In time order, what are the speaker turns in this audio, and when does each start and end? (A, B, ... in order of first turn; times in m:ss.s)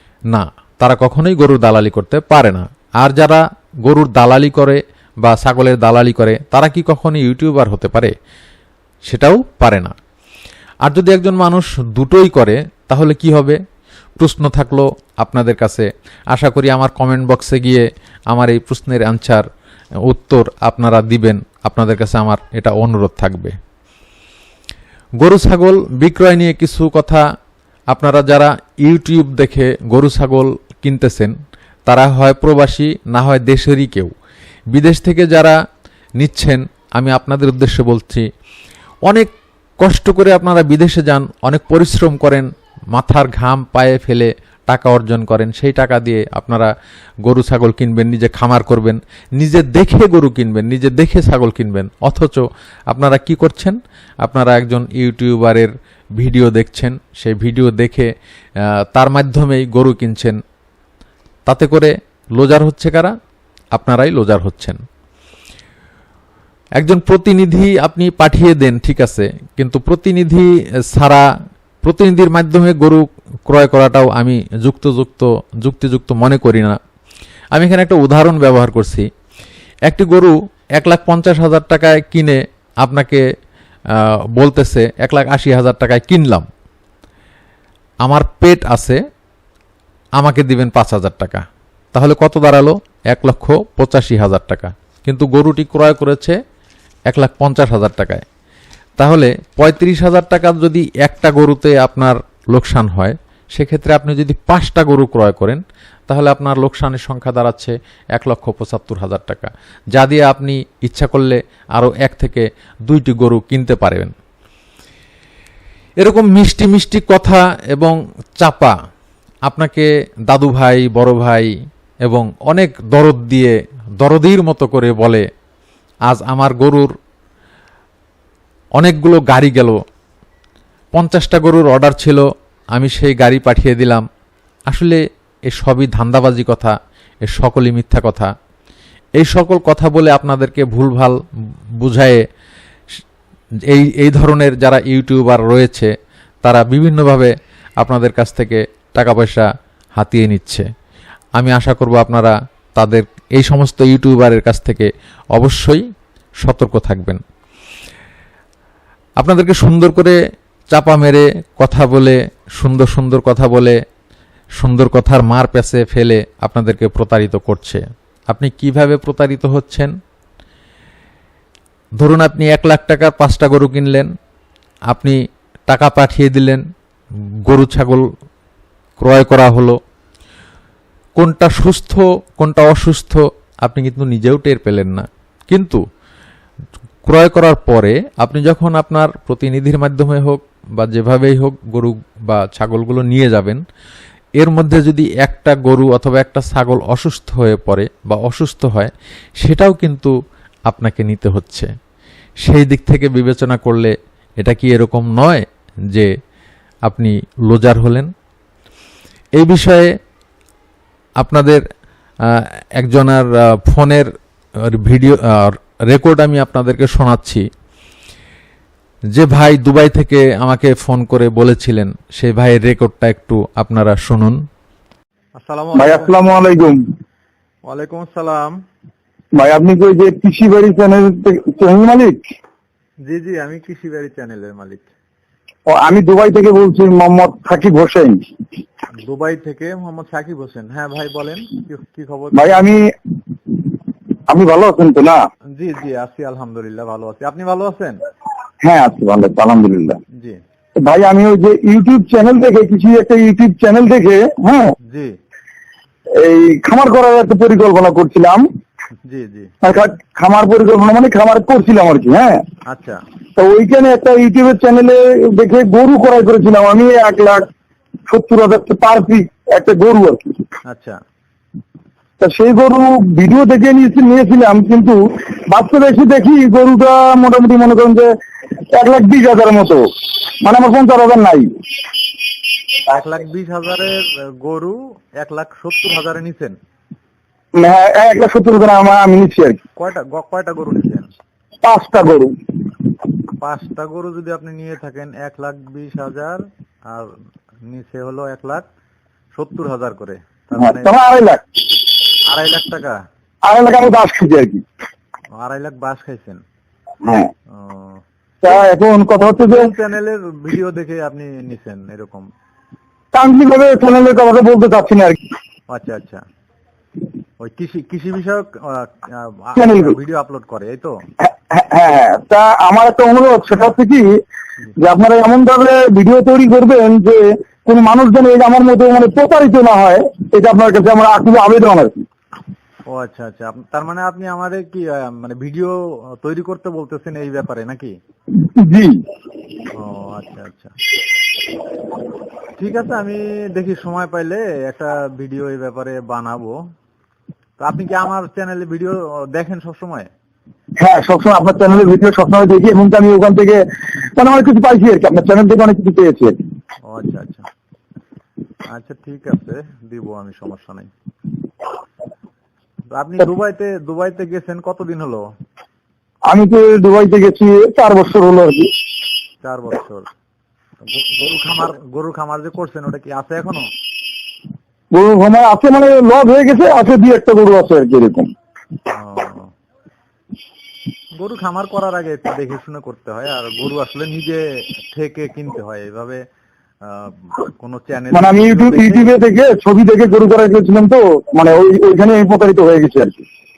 0:00.3-0:08.1 A
0:09.1-0:09.9 A
0:10.8-0:13.6 A
0:14.2-0:19.4 A
0:20.0-0:23.5 A
0:25.2-0:27.2 A
0:27.9-0:31.3 A
0:31.9-0:34.1 A
0:34.7-0:35.6 A
0:36.2-0:38.3 A
0:39.1-0:46.7 A
0:47.2-0:58.1 A
0:58.6-1:00.4 A
1:01.5-1:03.1 A
1:03.7-1:04.8 A
1:06.8-1:11.2 A
1:11.8-1:16.8 A
1:17.5-1:19.1 A
1:19.9-1:23.2 A
1:23.9-1:26.4 A
1:28.0-1:29.0 A
1:30.2-1:36.4 A
1:37.1-1:38.2 A
1:39.0-1:54.1 A
1:56.0-1:58.8 A
1:59.5-2:01.5 A
2:02.0-2:05.3 A
2:06.1-2:06.9 A
2:08.8-2:09.8 A
2:10.9-2:14.0 A
2:14.7-2:18.3 A
2:19.2-2:21.2 A
2:21.8-2:22.2 A
2:23.6-2:25.9 A
2:26.4-2:30.7 A
2:31.4-2:35.8 A
2:36.4-2:37.2 A
2:39.2-2:40.2 A
2:40.7-2:43.8 A
2:44.6-2:49.9 A
2:52.0-2:54.1 A
2:54.9-2:56.6 A
2:57.4-2:58.1 A
2:59.0-2:59.8 A
3:01.2-3:05.8 A
3:07.0-3:13.6 A
3:14.4-3:20.1 A
3:20.7-3:21.7 A
3:22.4-3:26.1 A
3:26.9-3:28.1 A
3:29.4-3:29.9 A
3:31.2-3:31.6 A
3:32.2-3:37.4 A
3:39.1-3:44.4 A
3:45.4-3:46.2 B
3:45.7-3:46.8 C
3:47.7-3:48.6 B
3:49.4-3:52.2 C
3:53.0-3:54.9 B
3:55.7-3:58.2 C
3:59.0-4:02.8 B
4:02.3-4:02.9 C
4:04.3-4:05.2 C
4:05.6-4:08.0 B
4:08.6-4:10.0 C
4:10.2-4:10.4 B
4:10.8-4:14.7 C
4:14.9-4:15.2 B
4:16.2-4:18.4 C
4:19.0-4:19.5 B
4:19.6-4:22.4 C
4:22.7-4:23.0 B
4:23.4-4:27.4 C
4:28.1-4:30.4 C
4:30.7-4:31.0 B
4:32.2-4:38.1 C
4:38.7-4:39.8 C
4:40.4-4:41.5 C
4:42.8-4:46.6 B
4:47.5-4:49.6 C
4:49.8-4:51.1 B
4:51.6-4:52.3 C
4:53.4-4:57.1 B
4:57.6-4:58.6 B
4:59.3-5:00.9 B
5:00.6-5:01.4 C
5:02.2-5:03.0 B
5:03.4-5:04.6 C
5:05.3-5:06.4 B
5:07.0-5:07.3 C
5:07.5-5:08.0 B
5:08.4-5:09.7 C
5:09.4-5:12.2 B
5:13.1-5:15.2 C
5:15.7-5:16.2 B
5:17.4-5:20.9 B
5:19.6-5:19.9 C
5:21.2-5:24.2 C
5:24.8-5:32.0 C
5:32.9-5:38.0 B
5:38.4-5:39.0 C
5:39.7-5:40.7 B
5:42.6-5:46.6 B
5:47.6-5:50.1 B
5:50.8-5:56.4 C
5:56.9-5:57.5 B
5:58.6-6:00.9 B
6:02.9-6:05.2 B
6:06.3-6:08.7 C
6:09.4-6:10.1 B
6:10.8-6:13.7 B
6:14.9-6:18.3 C
6:18.9-6:19.5 B
6:21.1-6:26.2 B
6:26.8-6:29.2 B
6:28.1-6:33.2 C